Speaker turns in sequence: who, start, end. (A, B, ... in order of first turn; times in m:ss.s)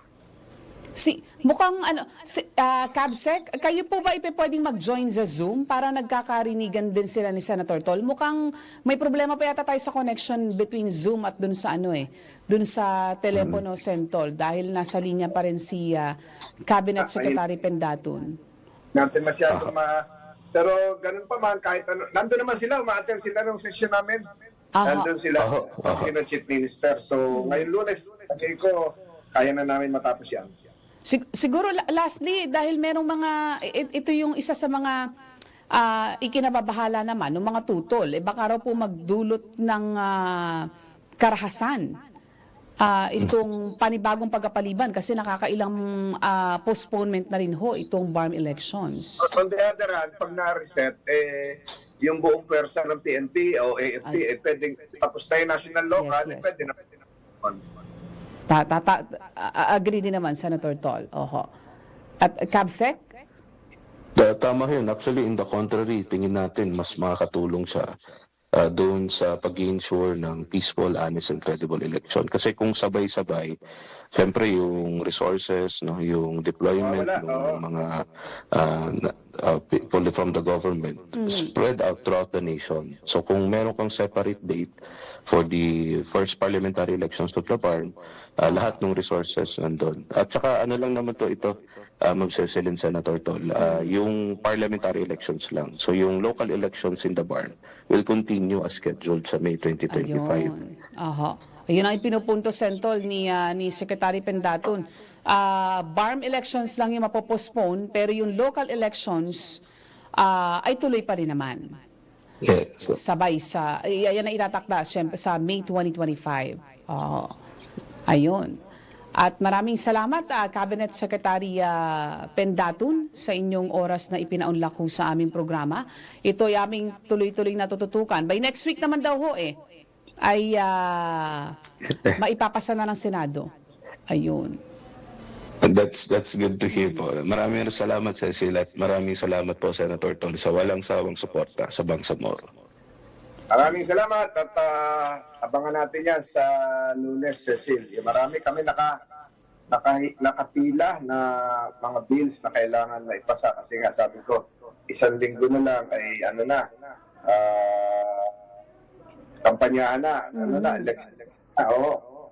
0:01.0-0:16.1 A
0:13.3-0:13.6 B
0:16.7-0:18.3 A
0:17.0-0:17.5 C
0:18.9-0:20.0 C
0:20.5-0:24.2 C
0:24.8-0:25.1 A
0:24.8-0:28.8 C
0:25.4-0:26.1 B
0:27.3-0:27.6 A
0:29.3-0:30.5 C
0:31.1-0:35.0 A
0:35.7-0:40.6 A
0:41.2-0:41.8 A
0:42.8-0:49.3 A
0:49.2-0:56.8 C
0:56.0-0:56.5 A
0:58.5-1:01.5 A
1:02.2-1:03.0 A
1:04.2-1:07.9 B
1:08.6-1:13.5 B
1:14.1-1:17.9 B
1:16.8-1:17.6 C
1:18.5-1:24.7 B
1:21.2-1:21.5 A
1:25.3-1:40.5 B
1:33.6-1:33.9 A
1:39.9-1:49.6 A
1:50.2-1:51.6 A
1:52.4-1:53.0 B
1:52.9-1:57.3 A
1:58.1-1:58.6 A
1:59.2-2:09.5 A
2:10.2-2:11.5 A
2:12.2-2:13.5 A
2:14.1-2:14.6 A
2:15.6-2:22.5 B
2:16.7-2:17.0 A
2:23.5-2:28.9 C
2:29.7-2:36.6 C
2:37.3-2:38.3 C
2:39.4-2:41.9 C
2:40.3-2:40.9 A